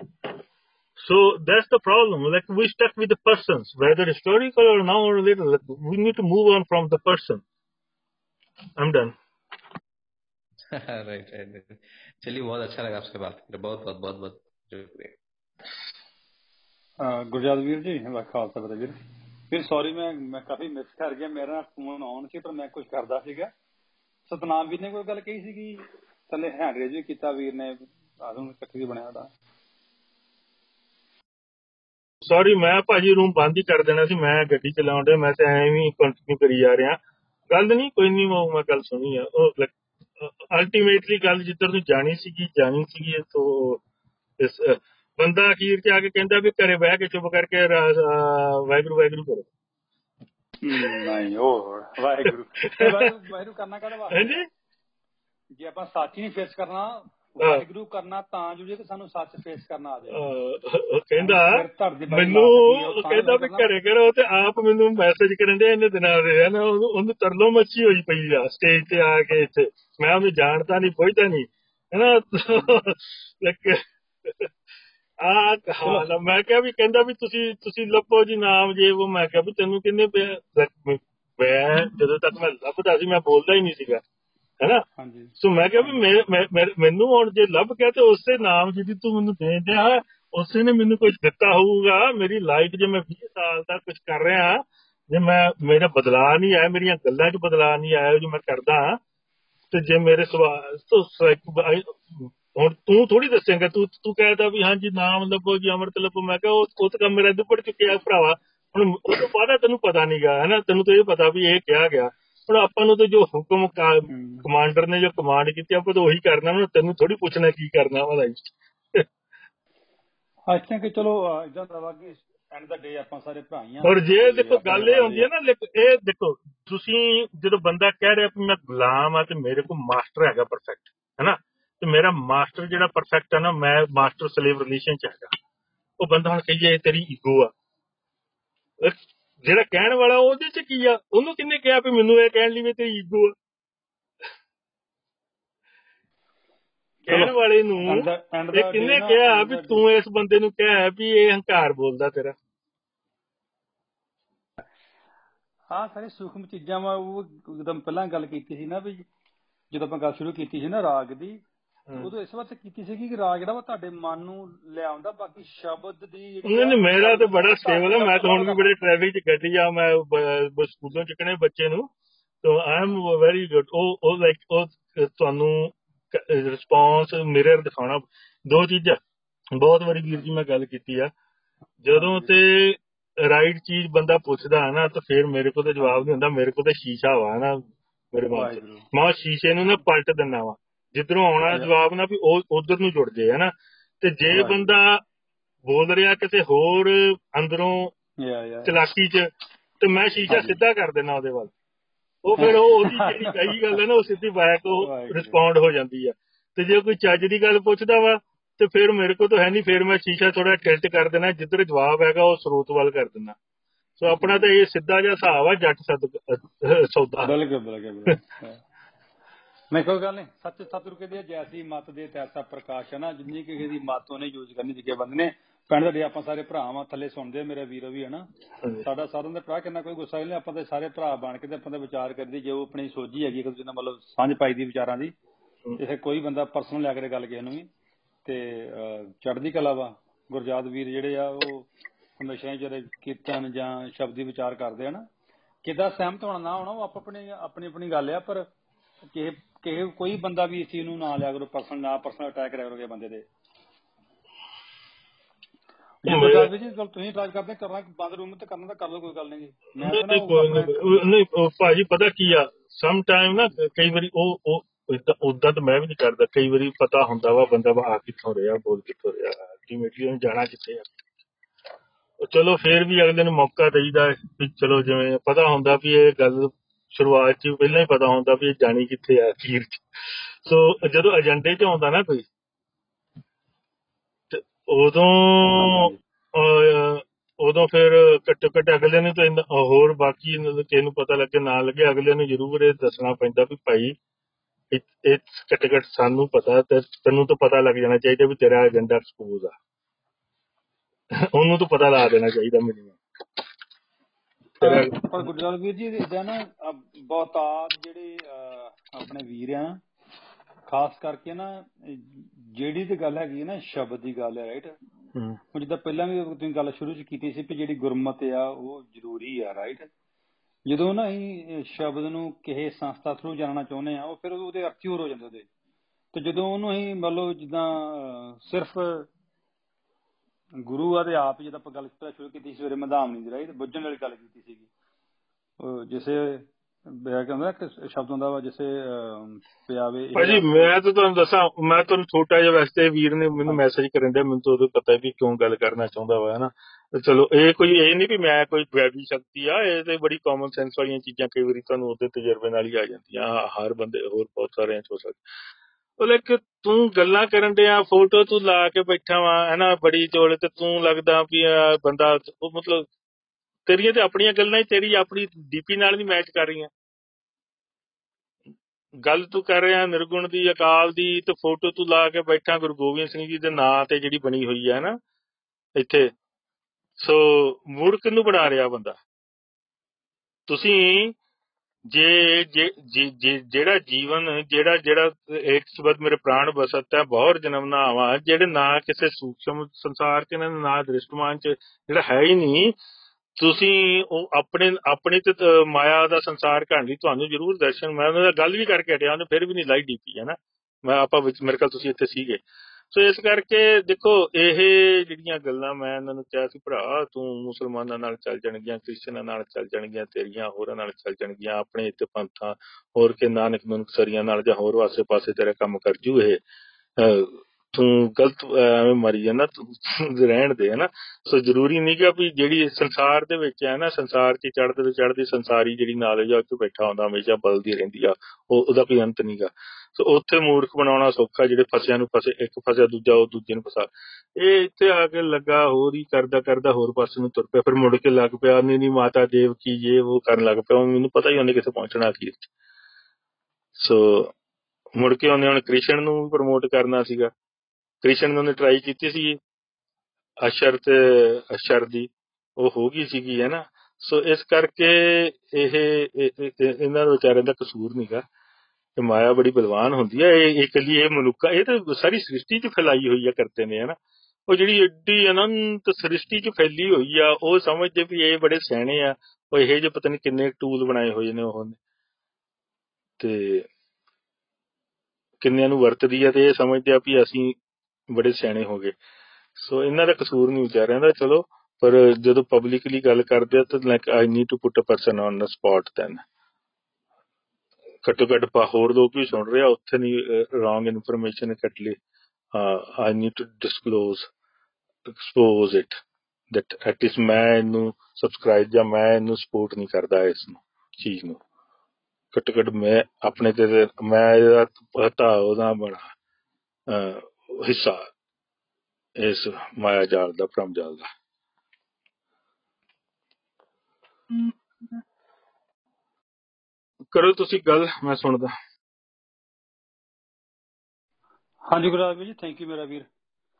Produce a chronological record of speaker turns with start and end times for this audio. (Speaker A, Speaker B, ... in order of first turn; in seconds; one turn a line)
Speaker A: 1.0-7.4
Speaker A: 8.8-9.1
Speaker B: 10.7-15.2
Speaker C: 17.0-19.0
Speaker C: 19.5-23.5
Speaker C: 24.3-29.3
Speaker A: 32.2-37.0
Speaker A: 37.5-43.8
Speaker A: 44.4-49.5
Speaker C: 50.6-54.4
Speaker A: 52.3-53.1
Speaker A: 54.1-54.5
Speaker C: 55.6-60.3
Speaker A: 57.4-57.6
Speaker A: 60.1-74.5
Speaker C: 61.2-63.7
Speaker A: 75.2-84.0
Speaker C: 85.0-85.3
Speaker A: 85.4-99.0
Speaker A: 99.7-119.0
Speaker C: 114.1-114.5
Speaker C: 120.5-125.3
Speaker A: 123.8-135.3
Speaker A: 136.0-137.5
Speaker A: 138.8-143.3
Speaker C: 147.1-149.8
Speaker A: 147.1-152.4
Speaker C: 155.7-159.1
Speaker C: 159.7-161.4
Speaker C: 162.0-168.7
Speaker A: 166.4-171.9
Speaker A: 172.4-179.0
Speaker A: 179.6-181.1
Speaker A: 181.8-187.6
Speaker C: 181.9-182.3
Speaker A: 188.1-195.0
Speaker C: 188.3-188.9
Speaker C: 194.3-194.7
Speaker A: 195.7-197.9
Speaker C: 198.2-198.8
Speaker A: 198.7-199.3
Speaker A: 199.8-201.5
Speaker C: 200.3-200.6
Speaker A: 202.2-213.4
Speaker C: 202.4-203.6
Speaker C: 204.8-205.4
Speaker A: 214.0-217.3
Speaker C: 217.2-218.6
Speaker C: 219.7-228.3
Speaker C: 228.8-235.1
Speaker C: 235.8-237.7
Speaker C: 238.2-245.1
Speaker C: 245.6-248.5
Speaker C: 249.1-253.2
Speaker C: 256.0-261.0
Speaker A: 256.1-256.5
Speaker A: 259.8-271.0
Speaker A: 272.2-279.8
Speaker A: 280.4-282.3
Speaker A: 284.3-293.9
Speaker C: 285.6-285.9
Speaker A: 294.7-299.5
Speaker A: 301.1-303.0
Speaker A: 304.6-305.3
Speaker C: 304.6-309.8
Speaker C: 310.7-314.8
Speaker C: 315.5-319.9
Speaker C: 320.7-325.5
Speaker C: 326.1-329.1
Speaker C: 330.6-334.7
Speaker C: 335.6-340.7
Speaker A: 340.1-355.2
Speaker A: 356.0-362.9
Speaker A: 363.7-366.7
Speaker A: 369.0-375.0
Speaker A: 375.8-376.1
Speaker A: 377.0-379.0
Speaker A: 380.5-381.1
Speaker A: 381.9-392.8
Speaker A: 393.4-402.4
Speaker A: 402.9-416.4
Speaker A: 417.0-442.5
Speaker A: 443.8-444.3
Speaker A: 445.0-447.3
Speaker A: 448.0-449.4
Speaker A: 450.4-458.2
Speaker A: 459.0-464.0
Speaker A: 464.5-471.8
Speaker A: 473.2-473.7
Speaker A: 475.4-477.6
Speaker A: 478.1-478.9
Speaker A: 479.6-486.2
Speaker A: 488.0-492.0
Speaker A: 492.5-494.3
Speaker A: 495.1-496.0
Speaker A: 496.5-501.4
Speaker A: 502.3-506.1
Speaker A: 506.9-508.1
Speaker A: 509.2-511.1
Speaker A: 517.1-518.5
Speaker C: 521.7-523.1